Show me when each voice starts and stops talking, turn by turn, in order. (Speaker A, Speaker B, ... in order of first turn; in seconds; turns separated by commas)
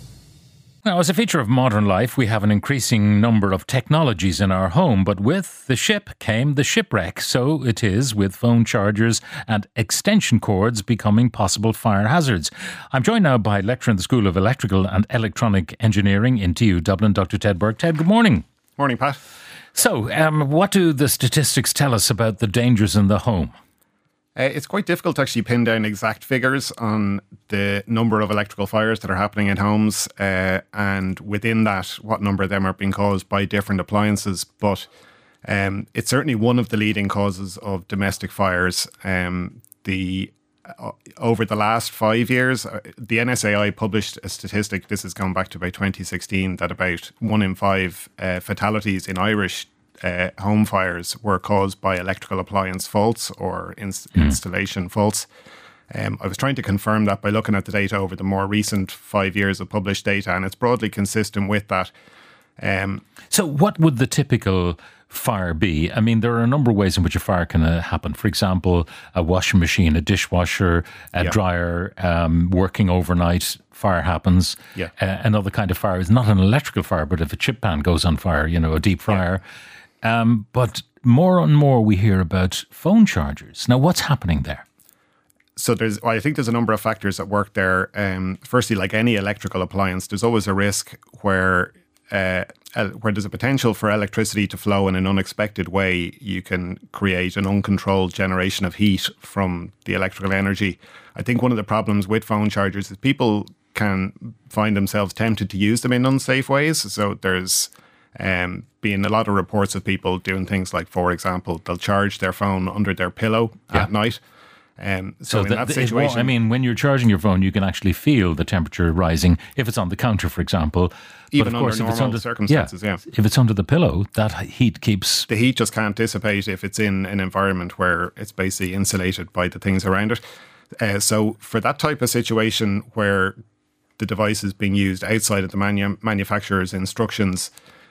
Speaker A: 0.8-18.4, Speaker B: 18.8-19.2, Speaker A: 19.8-23.6, Speaker B: 24.4-34.9, Speaker B: 35.5-55.3, Speaker A: 54.1-54.4, Speaker B: 55.9-61.9, Speaker B: 62.6-63.0, Speaker A: 63.3-79.4, Speaker A: 80.0-84.6, Speaker B: 85.6-114.2, Speaker B: 114.8-116.3, Speaker A: 115.3-125.3, Speaker B: 121.3-123.0, Speaker B: 125.3-130.2, Speaker B: 130.8-133.3, Speaker B: 134.0-137.5